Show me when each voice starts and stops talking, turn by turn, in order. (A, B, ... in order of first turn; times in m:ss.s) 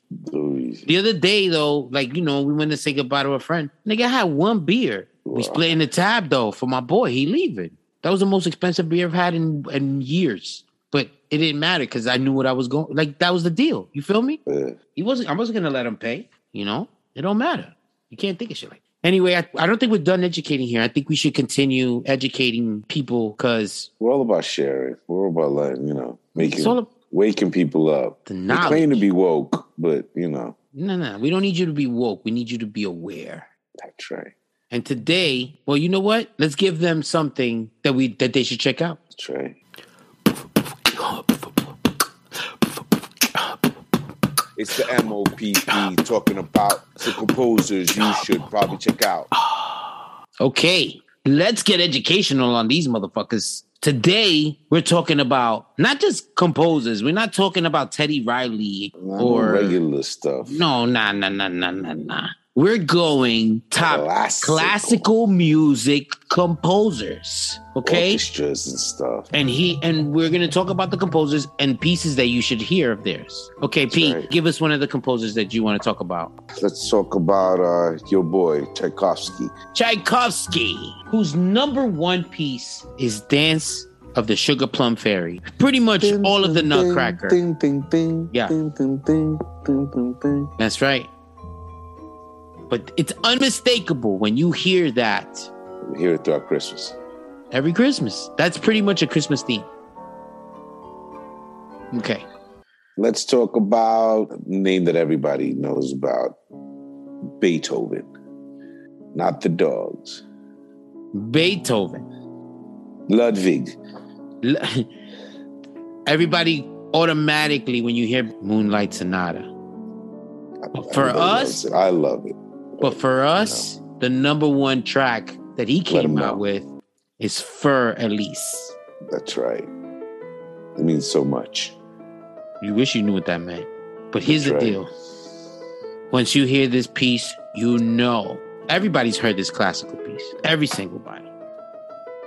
0:00.3-0:00.9 A
0:00.9-0:14.4 B
0:05.2-0:05.8 A
0:14.5-0:14.8 A
0:15.0-0:23.9 B
0:24.0-0:30.6 A
0:26.4-0:26.9 B
0:28.3-0:29.1 B
0:30.7-0:33.5 B
0:33.8-0:34.3 A
0:34.7-0:39.0 B
0:39.2-0:39.6 A
0:44.6-0:49.3 A
0:50.4-0:59.8 B
0:59.0-1:00.7 A
1:00.4-1:08.2 B
1:03.8-1:05.1 A
1:07.8-1:09.3 A
1:09.3-1:16.4 B
1:13.9-1:14.3 A
1:16.6-1:19.5 A
1:19.7-1:27.4 B
1:26.0-1:30.5 A
1:28.3-1:28.6 B
1:30.6-1:31.1 B
1:32.7-1:35.5 B
1:35.8-1:37.0 A
1:37.5-1:39.7 B
1:41.9-1:42.3 B
1:43.0-1:46.4 A
1:47.4-1:48.1 A
1:49.1-1:50.2 A
1:51.1-1:52.1 B
1:53.1-1:53.8 A
1:54.4-1:54.9 B
1:56.1-1:59.5 B
2:00.6-2:03.6 A
2:00.8-2:01.6 B
2:02.8-2:08.8 B
2:05.9-2:06.4 A
2:09.1-2:09.7 A
2:10.8-2:11.8 A
2:12.6-2:14.9 B
2:14.2-2:14.8 A
2:16.1-2:21.3 B